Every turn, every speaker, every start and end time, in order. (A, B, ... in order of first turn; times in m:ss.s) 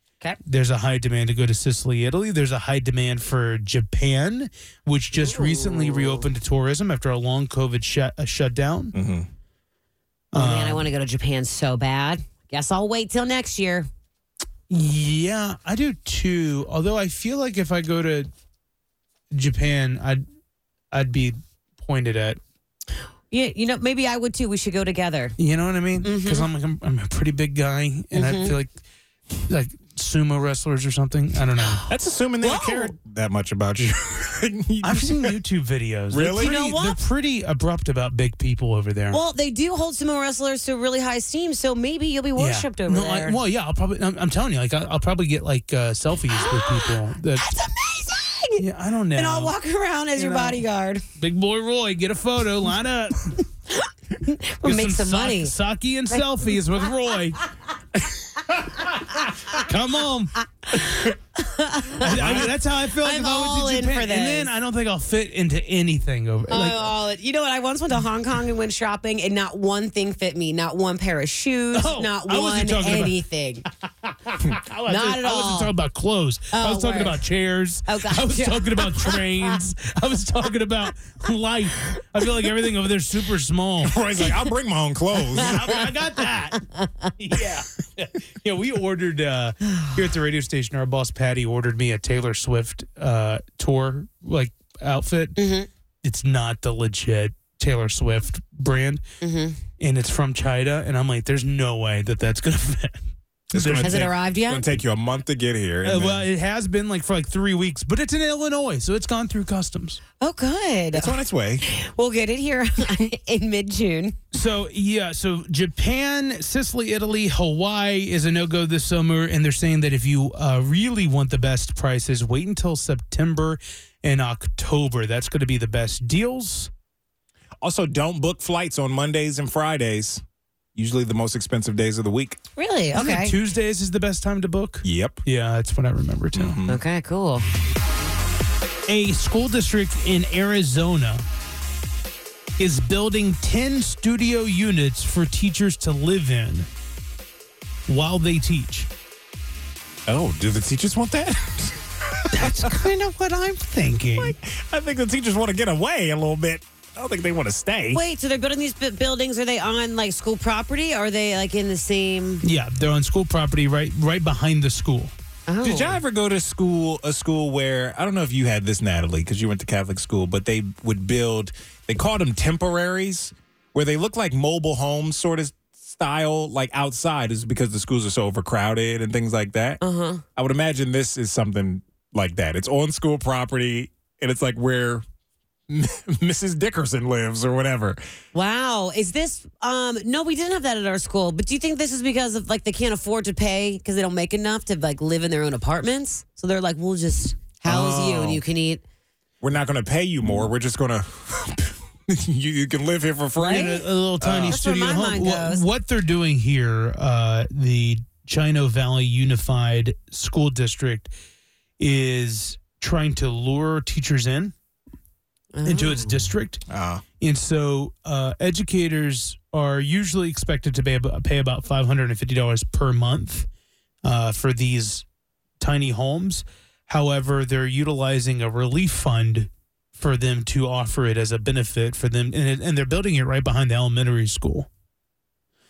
0:00.4-0:09.0 A
0:05.1-0:06.3 B
0:08.9-0:09.3 C
0:10.3-0:10.9 A
0:10.3-0:13.9 B
0:14.7-0:18.3 A
0:19.3-0:20.2 A
0:20.9-0:22.4 A
0:23.3-0:25.4 B
0:25.4-0:28.7 A
0:26.0-0:26.5 B
0:28.1-0:28.6 B
0:29.5-0:31.8 A
0:31.9-0:35.3 C
0:32.4-0:32.9 B
0:34.8-0:39.2 A
0:36.1-0:36.6 C
0:36.3-0:37.0 B
0:39.1-0:43.4 B
0:42.4-0:47.4 A
0:46.3-0:48.6 B
0:48.6-0:49.5 A
0:49.2-0:51.0 B
0:50.2-0:50.6 A
0:51.2-0:53.4 A
0:53.8-0:55.5 B
0:54.6-0:57.4 A
0:56.1-0:56.5 B
0:59.3-0:59.6 B
0:59.5-1:00.3 A
1:00.7-1:04.5 B
1:02.0-1:06.9 A
1:02.0-1:02.5 C
1:06.5-1:13.6 B
1:11.7-1:13.2 A
1:14.0-1:24.0 A
1:14.9-1:15.7 B
1:16.5-1:17.2 B
1:17.9-1:19.6 B
1:23.8-1:25.8 C
1:25.4-1:26.6 A
1:25.5-1:25.8 B
1:26.6-1:27.1 B
1:27.2-1:35.4 A
1:29.7-1:30.0 B
1:35.4-1:35.7 B
1:36.0-1:39.0 A
1:39.2-1:39.6 B
1:39.8-1:43.0 A
1:43.5-1:46.3 C
1:43.5-1:44.1 A
1:43.8-1:44.7 B
1:45.8-1:50.0 A
1:50.2-1:54.2 B
1:50.9-1:51.6 C
1:54.3-2:06.7 A
2:07.6-2:10.2 C
2:10.8-2:12.4 C
2:12.6-2:13.4 B
2:12.9-2:16.6 A
2:14.8-2:15.2 C
2:16.4-2:16.8 C
2:16.7-2:17.5 B
2:18.9-2:21.2 A
2:22.6-2:26.7 A
2:27.9-2:28.9 A
2:30.1-2:32.7 C
2:32.3-2:34.3 A
2:34.2-2:38.0 C
2:37.9-2:42.4 B
2:42.4-2:45.1 A
2:45.5-2:46.0 B
2:45.6-2:59.8 C
2:59.8-3:00.2 B
3:00.4-3:05.0 C
3:05.7-3:08.0 C
3:08.3-3:18.8 B
3:17.7-3:18.4 C
3:19.4-3:24.6 C
3:23.4-3:31.1 A
3:23.4-3:23.8 B
3:24.5-3:25.7 B
3:31.8-3:34.5 A
3:35.5-3:36.3 B
3:35.6-3:36.6 A
3:36.7-3:37.0 C
3:37.2-3:43.5 A
3:44.0-3:45.0 A
3:45.6-3:54.7 A